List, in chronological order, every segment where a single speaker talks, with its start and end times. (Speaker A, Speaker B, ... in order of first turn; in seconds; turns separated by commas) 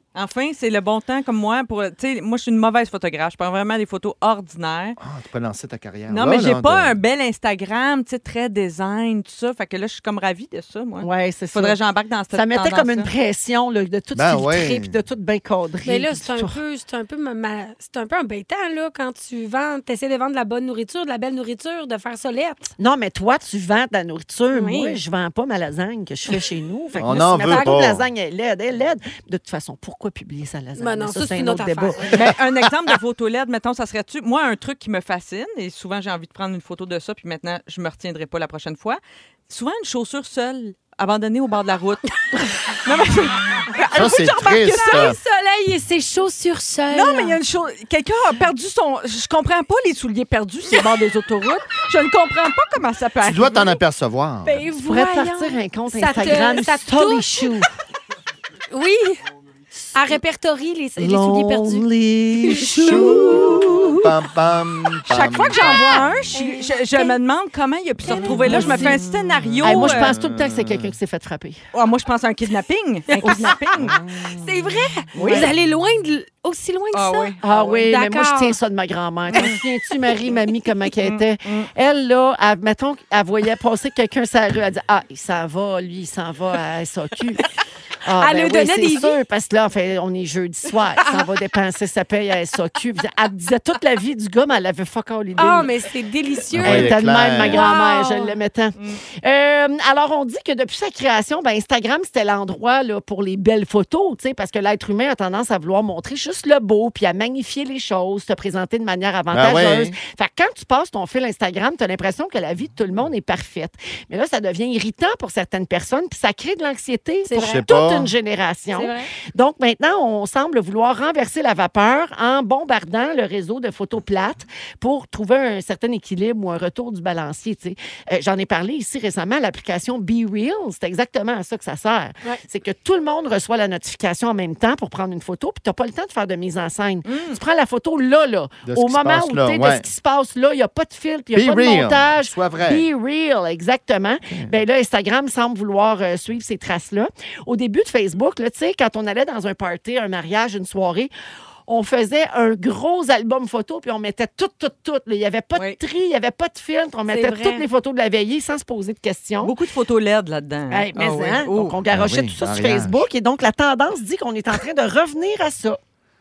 Speaker A: 0.1-5.0, Speaker B: 5.0-6.9, Speaker A: 6.1-13.1, Speaker C: 11.0-11.8, Speaker C: 12.3-16.6, Speaker B: 14.1-14.9, Speaker D: 15.8-22.7, Speaker C: 22.8-32.2, Speaker D: 24.5-25.0, Speaker B: 27.0-28.1, Speaker D: 27.3-27.8, Speaker D: 30.8-32.0, Speaker A: 32.1-42.1, Speaker A: 42.7-45.1, Speaker B: 43.9-45.2, Speaker D: 44.1-47.4, Speaker A: 46.9-53.8, Speaker B: 53.2-54.7, Speaker D: 54.4-57.5, Speaker C: 54.8-57.7, Speaker D: 58.7-59.2, Speaker D: 59.8-61.9, Speaker B: 61.0-66.3, Speaker D: 62.4-63.6, Speaker C: 62.6-63.8, Speaker A: 65.1-70.2, Speaker D: 66.3-67.2, Speaker D: 68.0-69.0, Speaker C: 68.2-69.0, Speaker B: 69.4-70.9, Speaker C: 69.6-71.6, Speaker A: 71.7-74.0, Speaker D: 73.1-73.5, Speaker B: 73.8-74.6, Speaker D: 74.4-78.6, Speaker A: 75.1-75.5, Speaker C: 75.1-75.5, Speaker A: 76.9-77.8, Speaker C: 77.4-87.4, Speaker A: 79.3-79.6, Speaker A: 81.0-81.7, Speaker C: 88.0-95.7, Speaker D: 88.2-89.2, Speaker D: 95.4-98.3, Speaker B: 96.5-97.7, Speaker C: 96.5-151.1, Speaker B: 109.3-109.9, Speaker D: 117.2-117.6, Speaker B: 117.3-118.1, Speaker D: 118.7-119.1, Speaker A: 137.1-137.4, Speaker B: 138.7-139.9, Speaker B: 141.3-142.8, Speaker C: 151.7-159.5, Speaker D: 157.1-157.6, Speaker A: 159.4-161.8, Speaker C: 160.7-165.8, Speaker B: 161.9-163.0